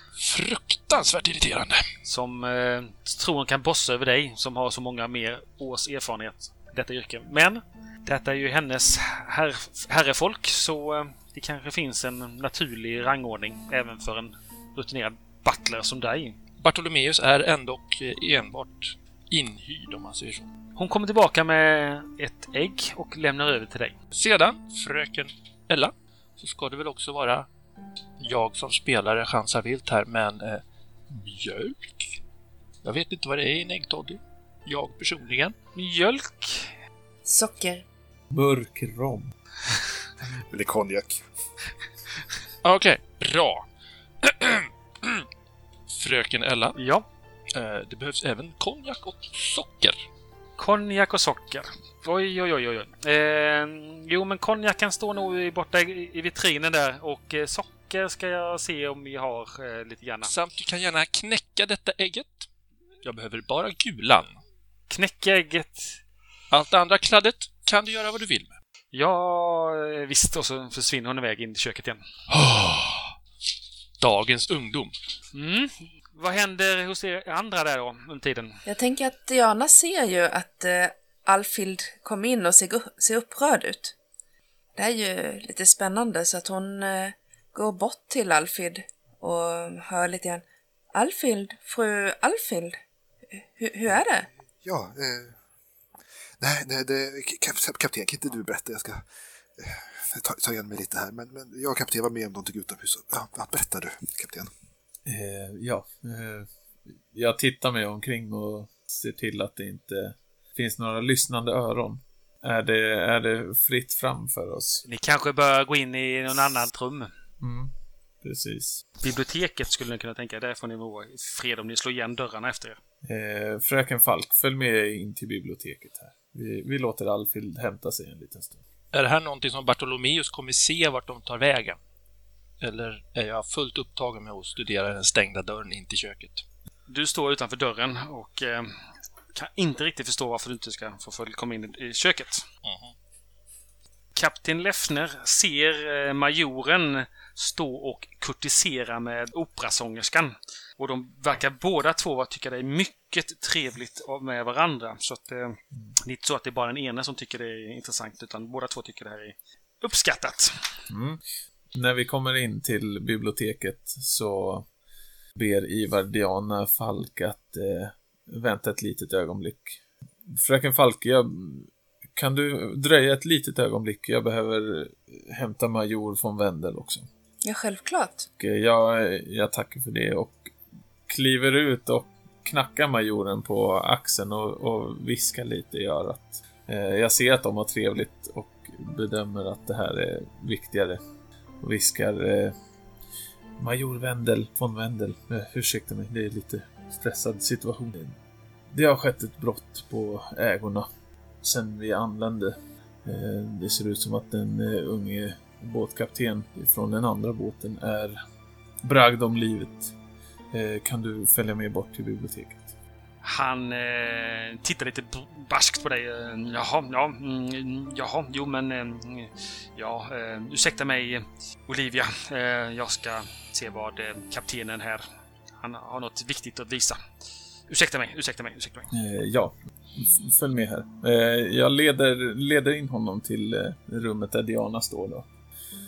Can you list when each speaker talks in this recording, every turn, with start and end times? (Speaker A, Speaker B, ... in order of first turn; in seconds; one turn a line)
Speaker A: 0.2-1.8
Speaker B: 2.0-16.4
Speaker A: 16.6-20.5
Speaker B: 20.8-24.0
Speaker A: 24.1-27.5
Speaker A: 28.2-32.2
Speaker A: 32.8-35.5
Speaker B: 35.8-36.8
Speaker C: 37.2-37.8
Speaker D: 38.3-39.3
Speaker E: 40.5-41.2
Speaker A: 42.6-43.6
Speaker A: 44.2-45.3
Speaker A: 45.9-46.8
Speaker B: 46.8-47.0
Speaker A: 47.5-50.0
Speaker B: 50.6-60.3
Speaker A: 60.2-62.5
Speaker A: 63.0-64.4
Speaker B: 64.9-66.0
Speaker A: 66.5-68.5
Speaker B: 68.9-72.0
Speaker A: 72.3-73.2
Speaker A: 74.0-75.0
Speaker B: 75.3-78.6
Speaker C: 78.7-84.0
Speaker C: 84.8-92.8
Speaker C: 93.3-94.3
Speaker E: 93.9-95.4
Speaker E: 96.4-99.1
Speaker E: 99.6-104.5
Speaker D: 105.1-106.5
Speaker D: 107.1-114.8
Speaker B: 114.8-117.1
Speaker D: 117.4-118.8
Speaker B: 119.0-122.8
Speaker D: 123.0-128.6
Speaker A: 128.9-131.8
Speaker A: 132.6-136.4
Speaker B: 136.9-138.7
Speaker B: 139.3-142.5
Speaker A: 142.6-142.9
Speaker B: 144.2-160.6
Speaker D: 160.9-161.2
Speaker D: 161.8-164.7
Speaker D: 165.3-177.1
Speaker C: 177.4-178.3
Speaker D: 178.4-180.5
Speaker D: 181.1-191.0
Speaker D: 191.6-192.5
Speaker D: 193.6-198.2
Speaker D: 198.7-200.9
Speaker D: 201.4-208.2
Speaker D: 208.8-209.9
Speaker D: 210.5-212.7
Speaker B: 213.2-225.0
Speaker B: 225.6-227.0
Speaker B: 227.7-228.9
Speaker D: 228.9-235.3